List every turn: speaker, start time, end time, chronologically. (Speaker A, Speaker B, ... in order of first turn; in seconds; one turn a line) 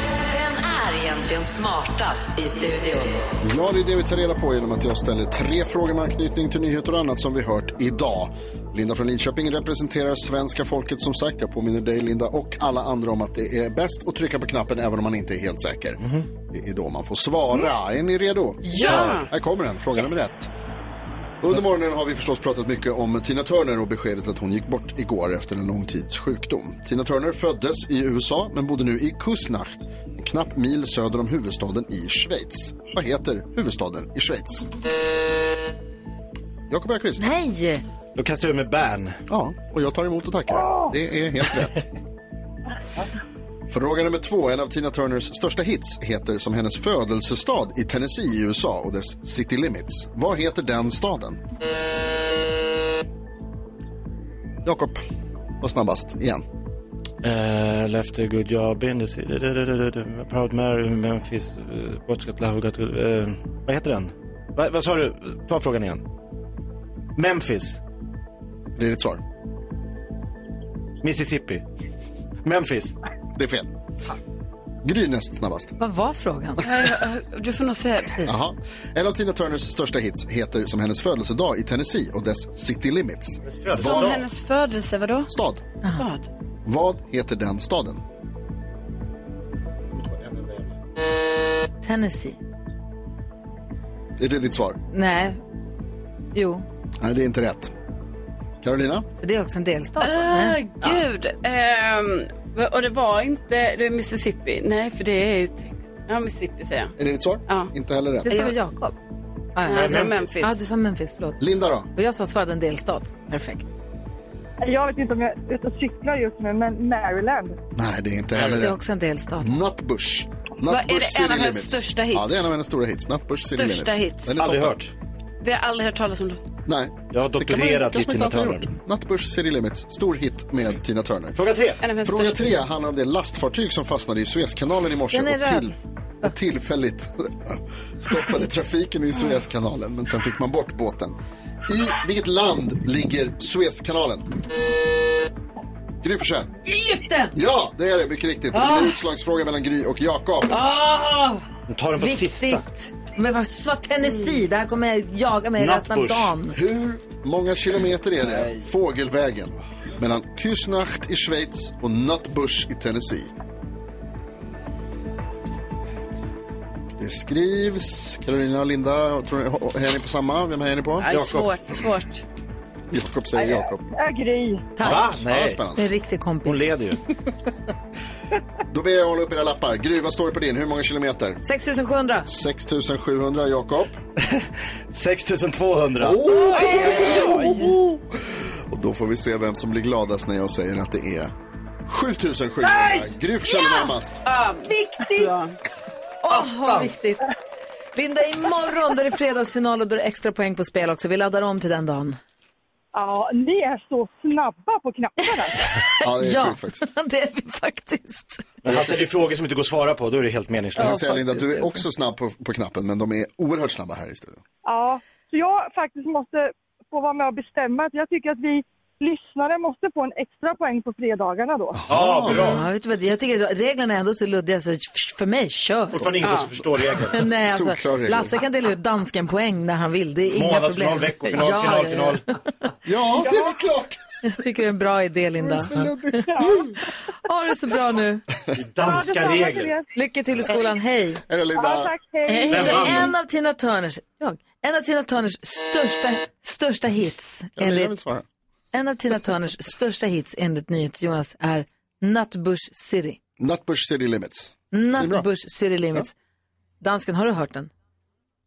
Speaker A: 0.3-3.2
Speaker B: 3.4-20.5
Speaker C: 18.6-19.2
Speaker D: 18.7-19.3
Speaker B: 21.4-34.7
Speaker B: 36.7-37.3
Speaker C: 37.2-37.8
Speaker E: 38.1-39.2
Speaker B: 39.3-41.8
Speaker F: 40.5-40.9
Speaker B: 43.7-51.4
Speaker B: 54.6-55.0
Speaker B: 55.6-56.4
Speaker E: 57.2-66.0
Speaker E: 67.2-67.8
Speaker B: 68.8-69.2
Speaker E: 71.0-71.6
Speaker E: 72.4-72.9
Speaker B: 73.3-73.7
Speaker B: 74.8-75.8
Speaker C: 75.8-76.6
Speaker D: 76.6-78.4
Speaker B: 78.2-84.2
Speaker E: 83.4-84.2
Speaker D: 83.7-85.3
Speaker B: 85.3-85.6
Speaker D: 85.8-86.3
Speaker B: 86.7-88.0
Speaker E: 89.9-90.8
Speaker C: 91.8-92.4
Speaker B: 94.2-94.8
Speaker C: 94.9-95.4
Speaker C: 96.3-96.6
Speaker B: 97.0-97.7
Speaker B: 98.6-99.1
Speaker C: 99.2-101.0
Speaker D: 100.0-107.0
Speaker B: 107.0-108.3
Speaker C: 108.2-109.0
Speaker D: 108.2-108.5
Speaker C: 109.5-111.4
Speaker D: 109.7-110.6
Speaker E: 109.7-110.4
Speaker B: 111.4-111.9
Speaker C: 111.9-113.7
Speaker F: 114.6-117.6
Speaker B: 117.7-118.8
Speaker C: 118.6-119.6
Speaker B: 119.4-124.8
Speaker D: 120.7-122.5
Speaker D: 123.5-124.3
Speaker E: 124.3-124.9
Speaker D: 125.4-126.5
Speaker B: 126.7-131.4
Speaker E: 127.1-128.7
Speaker E: 131.3-131.8
Speaker D: 131.8-132.6
Speaker B: 132.0-141.1
Speaker C: 135.1-135.7
Speaker B: 141.7-144.3
Speaker B: 146.0-146.5
Speaker C: 146.6-147.3
Speaker B: 147.3-150.6
Speaker C: 148.5-149.0
Speaker C: 150.5-151.4
Speaker E: 151.7-152.6
Speaker C: 152.0-156.6
Speaker E: 155.6-156.3
Speaker B: 156.5-163.3
Speaker E: 158.2-158.7
Speaker B: 166.9-171.1
Speaker D: 171.0-172.2
Speaker E: 171.1-171.5
Speaker B: 172.9-173.8
Speaker F: 173.3-174.7
Speaker E: 174.8-175.6
Speaker B: 174.8-175.8
Speaker C: 175.7-176.7
Speaker E: 176.4-177.0
Speaker B: 178.7-181.4
Speaker C: 181.4-182.3
Speaker B: 182.3-184.0
Speaker E: 184.2-186.2
Speaker B: 186.0-191.3
Speaker C: 186.3-187.6
Speaker D: 186.7-187.3
Speaker B: 191.9-194.2
Speaker C: 192.6-193.9
Speaker D: 194.2-195.5
Speaker C: 194.6-195.3
Speaker C: 196.2-197.3
Speaker C: 197.9-202.2
Speaker F: 202.9-205.6
Speaker C: 205.5-208.4
Speaker B: 206.0-206.8
Speaker B: 208.6-209.1
Speaker E: 208.6-211.0
Speaker B: 210.8-214.4
Speaker C: 210.8-211.8
Speaker F: 214.6-221.8
Speaker B: 221.7-222.6
Speaker E: 221.8-222.6
Speaker C: 222.3-226.2
Speaker E: 225.9-227.2
Speaker D: 226.2-226.5
Speaker C: 227.1-232.7
Speaker B: 227.4-228.3
Speaker E: 230.3-232.2
Speaker B: 232.8-234.0
Speaker C: 234.2-238.2
Speaker B: 235.4-236.4
Speaker F: 236.2-236.6
Speaker E: 238.5-239.7
Speaker F: 238.8-239.9
Speaker C: 239.9-241.2
Speaker B: 241.3-241.9
Speaker F: 241.5-243.1
Speaker D: 242.3-243.1
Speaker E: 242.5-243.1
Speaker C: 242.5-248.0
Speaker B: 247.6-248.2
Speaker C: 248.7-253.2
Speaker B: 253.4-255.3
Speaker C: 254.7-256.1
Speaker C: 256.8-257.7